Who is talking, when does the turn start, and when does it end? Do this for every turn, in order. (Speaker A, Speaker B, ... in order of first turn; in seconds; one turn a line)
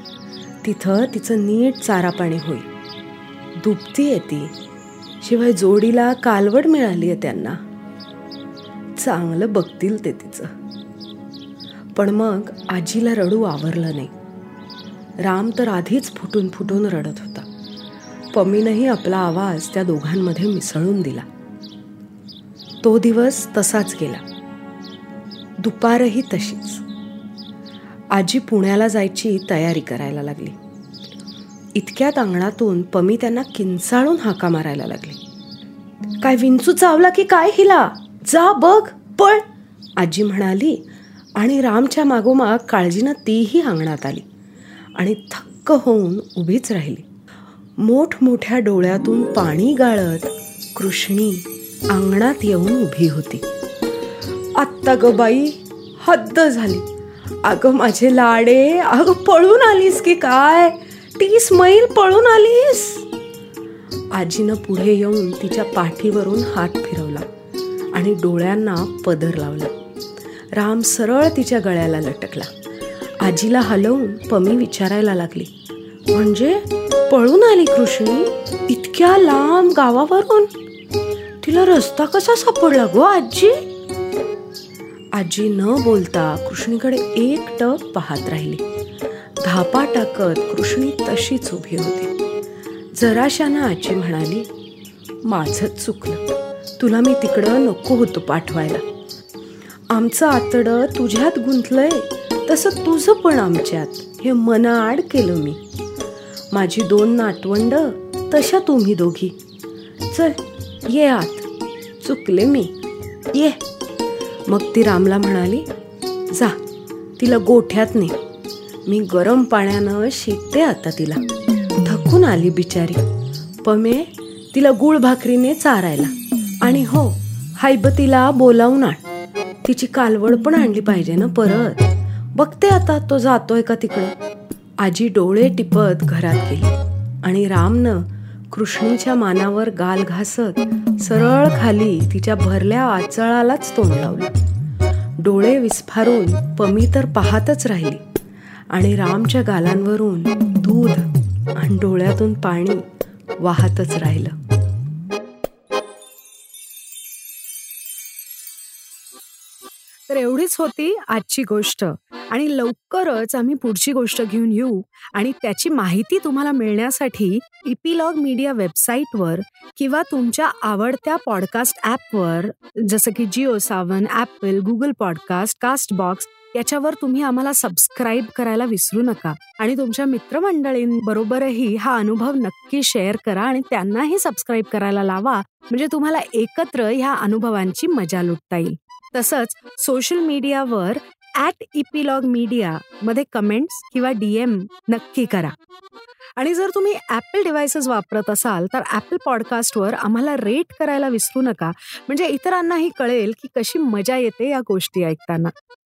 Speaker A: 0.6-2.7
Speaker A: 3.6-4.5
Speaker A: 5.2-7.6
Speaker A: 9.0-10.5
Speaker A: 11.9-14.1
Speaker A: 15.2-17.5
Speaker A: 18.3-21.2
Speaker A: 22.8-24.2
Speaker A: 25.6-26.8
Speaker A: 28.1-30.6
Speaker A: 31.8-35.2
Speaker A: 36.2-39.5
Speaker A: 40.0-40.8
Speaker A: 41.4-44.2
Speaker A: 45.0-47.0
Speaker A: 47.8-53.4
Speaker A: 54.6-56.8
Speaker A: 57.5-63.0
Speaker A: 64.1-67.3
Speaker A: 67.9-69.8
Speaker A: 70.5-72.5
Speaker A: 73.2-75.5
Speaker A: 76.1-80.5
Speaker A: 81.4-83.6
Speaker A: 85.2-88.6
Speaker A: 89.4-92.1
Speaker A: 92.9-94.5
Speaker A: 95.2-98.8
Speaker A: 99.9-105.6
Speaker A: 106.5-109.4
Speaker A: 110.1-111.5
Speaker A: 112.0-112.7
Speaker A: 113.3-113.6
Speaker A: 114.5-115.7
Speaker A: 116.3-116.6
Speaker A: 117.2-118.2
Speaker A: 118.9-121.2
Speaker A: 121.8-123.0
Speaker A: 123.6-129.0
Speaker A: 129.6-134.1
Speaker A: 134.8-144.3
Speaker A: 145.2-148.0
Speaker A: 148.7-152.9
Speaker A: 153.4-154.3
Speaker A: 160.1-195.6
Speaker A: 196.4-205.5